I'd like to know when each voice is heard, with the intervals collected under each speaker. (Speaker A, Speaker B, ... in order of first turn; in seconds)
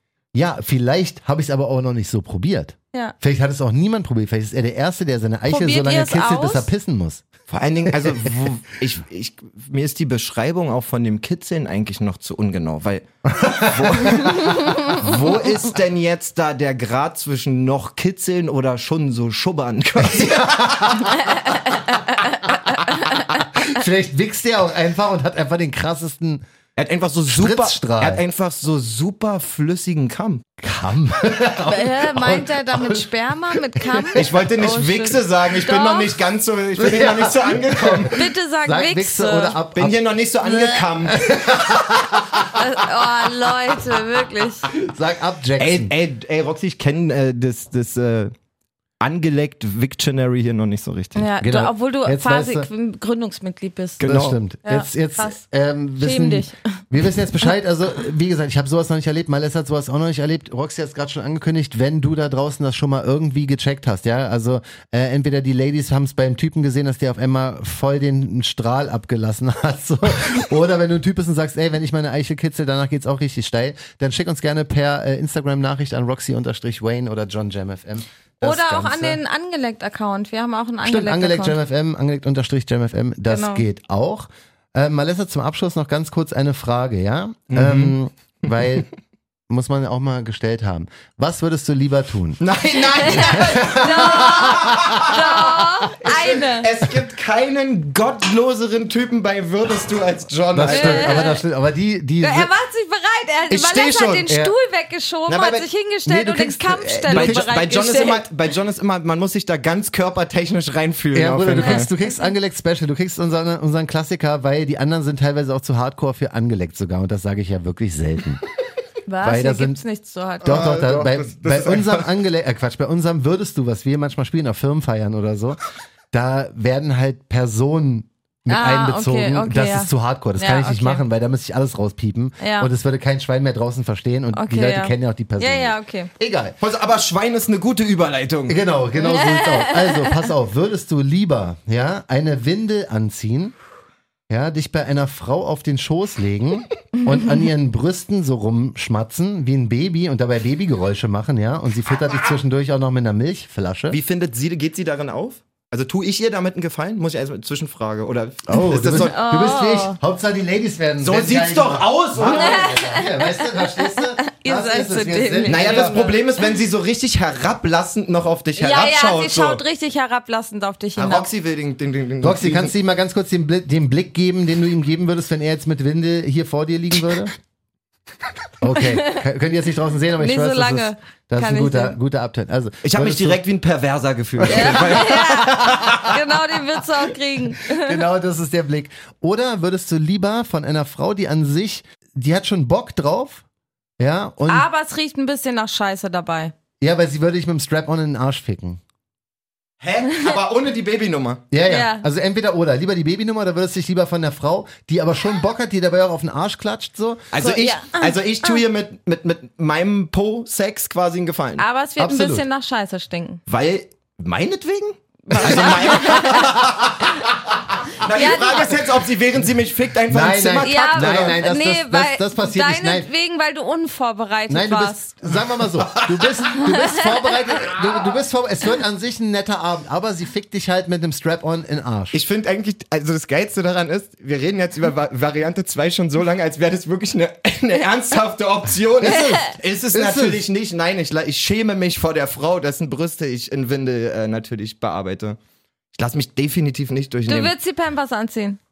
Speaker A: 0.3-7.3, 7.9-8.3, 13.3-15.1, 20.0-21.4, 23.5-26.4, 27.3-28.2, 30.6-34.3, 36.8-42.6, 44.7-45.9, 51.4-52.7, 54.0-79.2, 80.8-88.9, 89.5-92.5, 93.0-95.2, 100.5-102.5, 104.3-104.5, 106.1-107.6, 111.1-118.4, 119.2-119.8, 120.4-125.6, 126.1-136.6, 138.5-143.6, 144.3-154.0, 158.5-166.1, 172.2-177.3, 178.6-183.4, 184.4-186.1, 187.7-193.4, 194.0-194.7, 196.8-198.8, 201.5-207.3, 212.0-212.4, 215.3-216.8, 220.1-223.1, 224.5-232.2, 239.0-240.4
Speaker B: 5.5-6.7, 14.3-14.9, 21.9-22.4, 22.9-23.2, 31.7-36.1, 38.1-39.6, 42.5-44.7, 51.1-54.0, 54.6-55.4, 56.0-56.8, 78.4-81.6, 83.3-83.7, 93.0-96.7, 100.7-101.4, 102.2-108.2, 111.6-112.3, 119.1-120.6, 128.5-131.0, 132.4-132.7, 134.3-136.1, 139.0-140.2, 147.0-147.4, 158.9-160.0, 162.3-166.2, 168.6-171.3, 178.8-179.2, 180.2-182.0, 184.5-188.0, 194.5-196.5, 201.7-202.1, 207.4-208.6, 211.6-213.4, 215.3-216.6, 218.0-218.7, 220.6-225.0, 226.6-227.2, 239.1-239.5, 247.3-248.6
Speaker C: 7.5-21.5, 26.8-30.5, 34.1-38.1, 39.8-42.1, 45.6-48.3, 49.0-51.3, 54.0-54.4, 87.5-88.0, 92.4-101.3, 103.5-104.3, 105.3-105.7, 107.1-111.9, 120.4-122.1, 136.6-138.6, 153.9-159.2, 161.0-162.8, 165.4-169.6, 171.0-172.7, 182.8-186.2, 199.8-201.4, 207.3-211.7, 213.5-221.4, 225.3-226.6, 227.7-228.2, 232.1-245.4, 245.9-247.5